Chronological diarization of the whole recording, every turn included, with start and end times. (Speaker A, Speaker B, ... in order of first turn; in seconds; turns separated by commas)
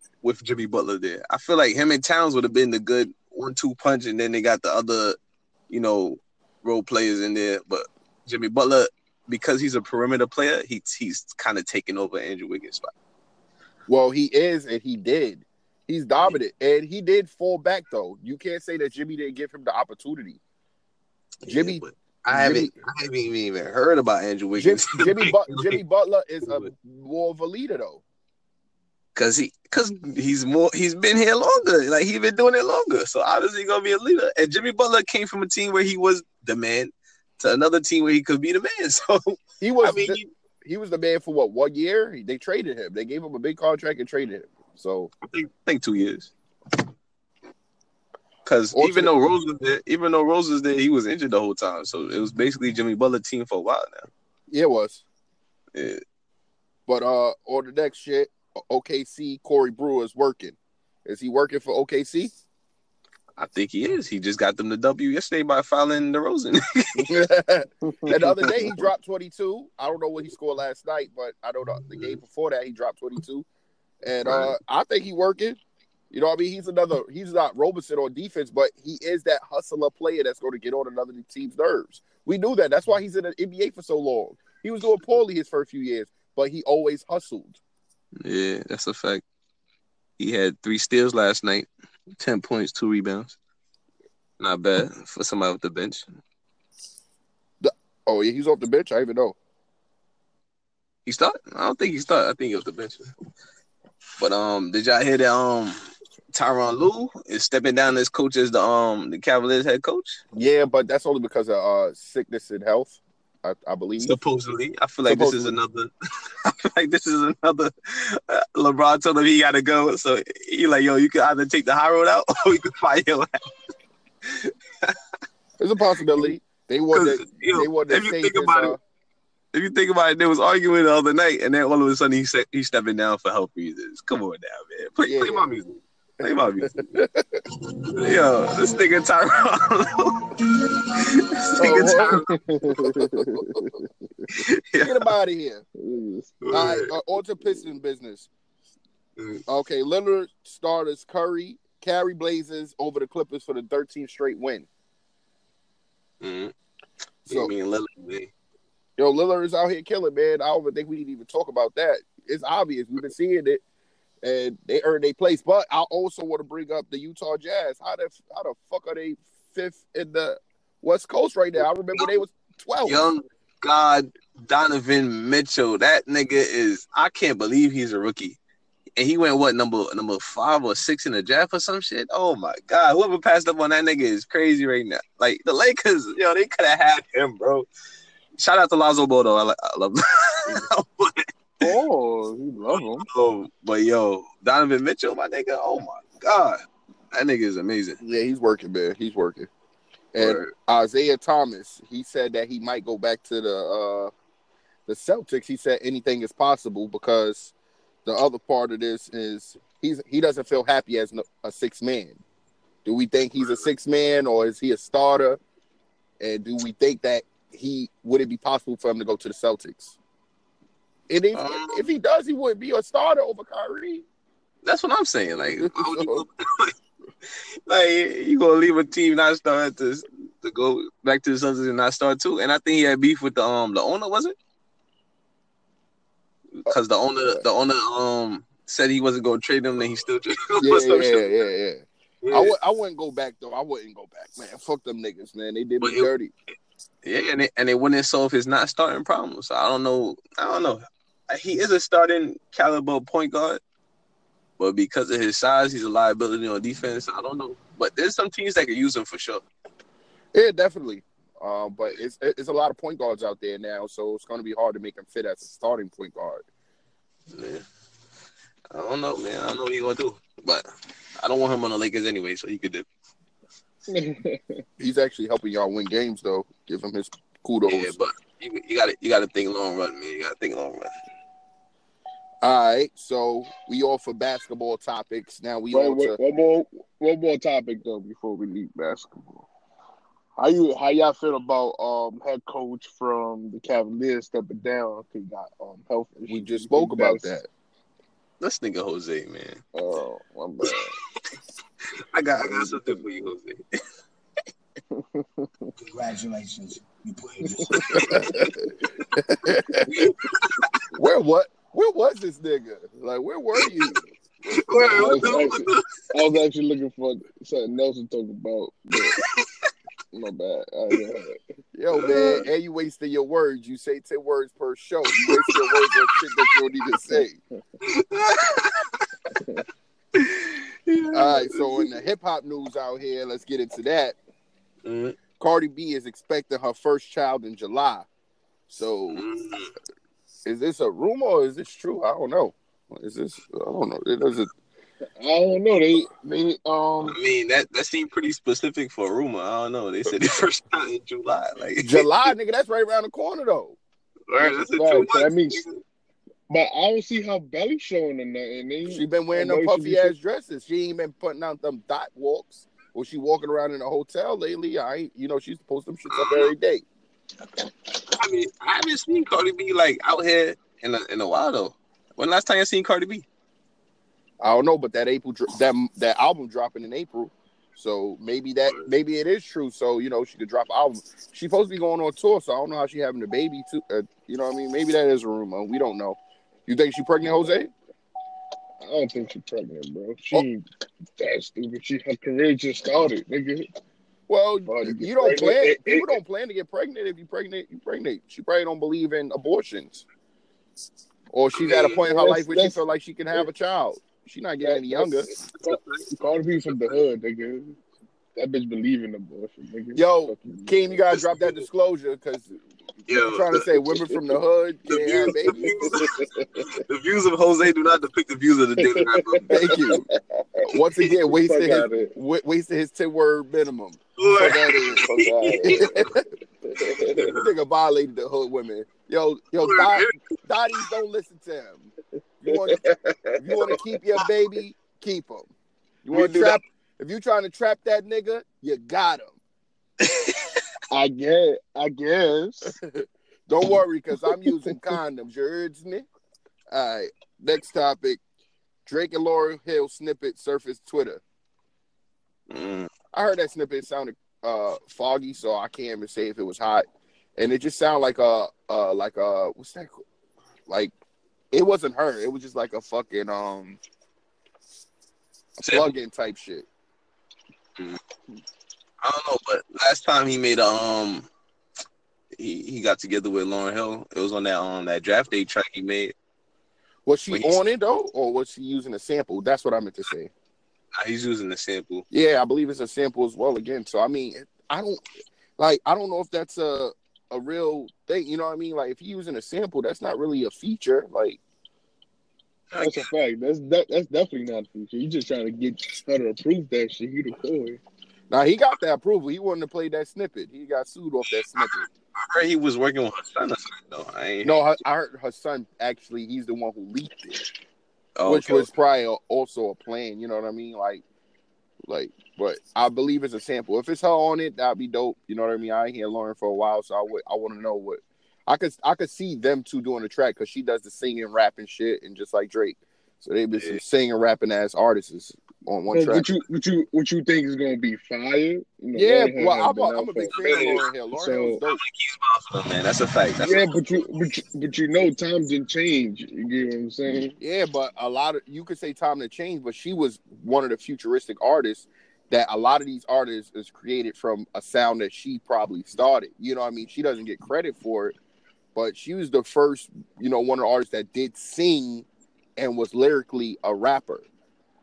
Speaker A: 0.2-5.2, Speaker A: 5.7-12.9, Speaker B: 13.9-20.4, Speaker A: 21.4-25.8, Speaker B: 21.4-22.7, Speaker B: 24.6-28.0, Speaker A: 29.1-40.3, Speaker B: 39.6-45.1, Speaker A: 45.2-46.3, Speaker A: 48.4-54.1, Speaker B: 48.7-49.1, Speaker B: 54.5-55.0, Speaker A: 55.7-56.0, Speaker B: 56.9-62.3, Speaker A: 63.4-67.2, Speaker B: 67.0-73.5, Speaker C: 67.8-68.8, Speaker B: 74.0-75.6, Speaker A: 74.2-74.5, Speaker B: 76.1-87.6, Speaker A: 88.2-89.2, Speaker A: 90.2-93.3, Speaker A: 94.4-96.1, Speaker B: 97.6-99.3, Speaker A: 101.0-103.1, Speaker A: 104.2-105.8, Speaker A: 106.3-110.2, Speaker B: 110.3-114.2, Speaker A: 114.0-115.9, Speaker B: 115.0-115.5, Speaker A: 116.4-123.5, Speaker A: 124.2-124.9, Speaker B: 125.6-128.8, Speaker A: 126.9-128.7, Speaker A: 129.5-137.0, Speaker B: 135.0-135.5, Speaker B: 136.7-137.4, Speaker A: 137.7-143.0, Speaker B: 141.6-142.2, Speaker C: 142.3-144.2, Speaker A: 144.3-145.1, Speaker B: 144.8-145.6, Speaker C: 145.8-146.8, Speaker A: 146.4-146.9, Speaker B: 146.5-148.3, Speaker A: 149.2-149.4, Speaker B: 149.5-154.7, Speaker A: 156.2-156.5, Speaker A: 157.2-158.3, Speaker B: 159.0-163.6, Speaker B: 164.2-173.1, Speaker A: 172.8-178.4, Speaker A: 179.0-187.7, Speaker A: 188.4-191.7, Speaker C: 191.6-193.1, Speaker A: 193.0-196.6, Speaker A: 197.1-198.0, Speaker B: 198.0-199.5, Speaker B: 200.1-204.1, Speaker A: 200.2-200.5, Speaker B: 204.9-207.5, Speaker B: 208.0-212.2, Speaker B: 212.8-215.4, Speaker B: 216.2-220.0, Speaker B: 221.1-224.0, Speaker A: 221.3-221.8, Speaker A: 224.6-226.7, Speaker B: 225.6-226.2, Speaker A: 227.7-234.3, Speaker A: 236.6-241.4, Speaker B: 240.6-246.3, Speaker A: 242.2-242.5, Speaker A: 245.8-246.1, Speaker A: 247.0-253.6, Speaker A: 254.6-259.4, Speaker B: 260.3-266.4, Speaker A: 267.3-267.6, Speaker A: 268.7-270.7, Speaker A: 271.2-272.9, Speaker C: 273.9-274.6, Speaker B: 274.8-277.9, Speaker A: 277.6-280.9, Speaker B: 282.4-286.2, Speaker C: 285.7-289.5, Speaker C: 290.4-297.3, Speaker B: 296.3-297.5, Speaker A: 298.4-299.6, Speaker C: 299.7-300.9, Speaker A: 301.9-303.8, Speaker C: 302.5-303.0, Speaker C: 304.9-305.7, Speaker D: 305.8-308.4, Speaker C: 307.4-308.5, Speaker B: 307.9-309.9, Speaker A: 309.9-310.8, Speaker B: 310.9-315.0, Speaker A: 314.5-315.8, Speaker C: 314.9-319.2, Speaker A: 319.1-319.4, Speaker C: 320.1-321.4, Speaker B: 321.7-327.4, Speaker A: 321.9-322.4, Speaker C: 322.0-322.4, Speaker A: 325.1-326.4, Speaker A: 327.8-329.1, Speaker C: 329.3-329.6, Speaker A: 330.1-331.9, Speaker B: 331.1-334.1, Speaker A: 334.8-335.2, Speaker B: 335.4-338.1, Speaker B: 338.7-339.2, Speaker A: 339.1-339.7, Speaker B: 340.4-344.5, Speaker C: 345.2-347.1, Speaker A: 347.1-352.1, Speaker B: 351.8-353.8, Speaker A: 354.3-355.8, Speaker C: 354.6-355.6, Speaker C: 356.5-360.1, Speaker B: 358.9-366.8, Speaker A: 366.1-366.5, Speaker A: 368.1-373.2, Speaker B: 374.4-387.7, Speaker C: 388.8-390.6, Speaker C: 391.2-393.7, Speaker B: 394.3-400.0, Speaker C: 394.6-396.2, Speaker B: 401.3-405.3, Speaker A: 401.6-402.0, Speaker C: 401.7-402.8, Speaker C: 404.6-407.8, Speaker A: 405.6-406.1, Speaker C: 408.3-411.0, Speaker B: 409.9-412.6, Speaker A: 411.1-411.5, Speaker A: 413.1-413.7, Speaker B: 413.2-415.9, Speaker A: 414.9-419.7, Speaker C: 415.2-416.6, Speaker C: 418.8-420.6, Speaker B: 419.5-420.0, Speaker B: 420.7-425.0, Speaker C: 421.2-422.1, Speaker A: 424.2-426.1, Speaker C: 424.9-425.9, Speaker B: 425.7-426.2, Speaker C: 426.6-427.4, Speaker A: 427.1-427.4, Speaker B: 427.3-431.9, Speaker A: 429.6-430.1, Speaker B: 432.4-432.8, Speaker C: 432.4-433.8, Speaker B: 433.4-435.5, Speaker B: 436.0-439.4, Speaker A: 436.1-436.6, Speaker A: 440.0-440.5, Speaker C: 440.9-442.8, Speaker B: 442.8-446.1, Speaker B: 446.7-448.2, Speaker B: 448.9-451.2, Speaker A: 452.5-452.9, Speaker B: 453.1-460.0, Speaker B: 461.5-463.8, Speaker A: 465.6-465.9, Speaker B: 465.6-466.6, Speaker A: 469.0-471.3, Speaker A: 472.3-476.1, Speaker B: 477.1-480.3, Speaker A: 481.0-482.0, Speaker B: 482.1-485.0, Speaker B: 485.6-491.4, Speaker A: 492.7-493.1, Speaker C: 492.8-497.8, Speaker B: 498.3-501.9, Speaker A: 501.6-504.6, Speaker B: 504.4-507.4, Speaker A: 508.2-508.7, Speaker B: 508.2-511.0, Speaker B: 511.9-526.2, Speaker C: 525.9-531.6, Speaker B: 528.9-531.8, Speaker A: 530.3-530.9, Speaker A: 531.6-534.0, Speaker C: 533.4-537.4, Speaker B: 537.4-548.1, Speaker B: 548.7-554.3